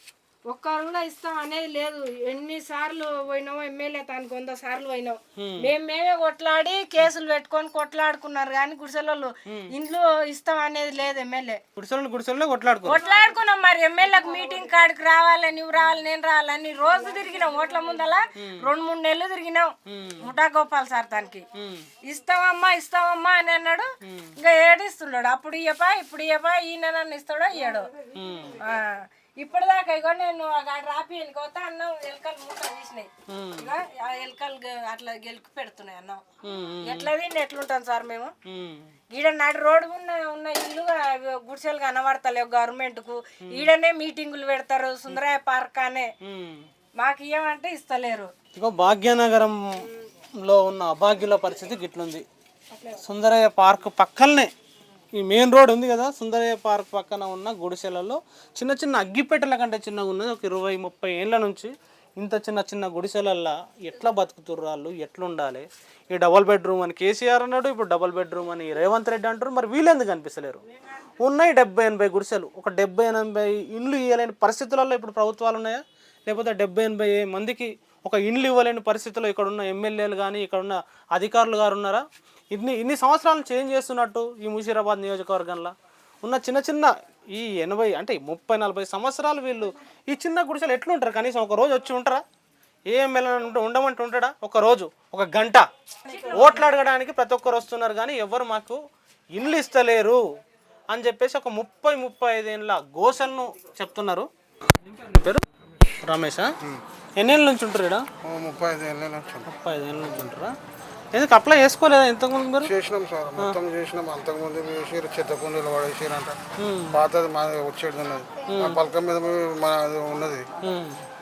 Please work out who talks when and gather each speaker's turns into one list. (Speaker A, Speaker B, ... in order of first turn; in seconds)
Speaker A: 0.5-11.6, 12.9-21.4, 22.0-27.9, 28.6-36.3, 36.8-38.3, 39.1-46.1, 47.0-48.3
Speaker B: 5.4-5.7, 11.8-13.0, 19.9-20.2, 21.6-21.8, 24.0-24.3, 28.1-28.6, 33.3-33.7, 36.4-37.1, 38.5-38.9, 46.2-46.6, 48.5-49.9, 50.4-52.2, 53.0-54.5, 55.2-70.6, 71.2-92.2, 92.9-95.7, 96.3-98.8, 99.3-100.2, 100.9-104.3, 104.8-105.4, 106.0-106.5, 107.2-108.0, 109.5-110.5, 111.1-112.7, 116.6-117.0, 118.5-118.8, 120.6-121.0
Speaker C: 108.2-109.5, 112.6-116.4, 116.9-120.5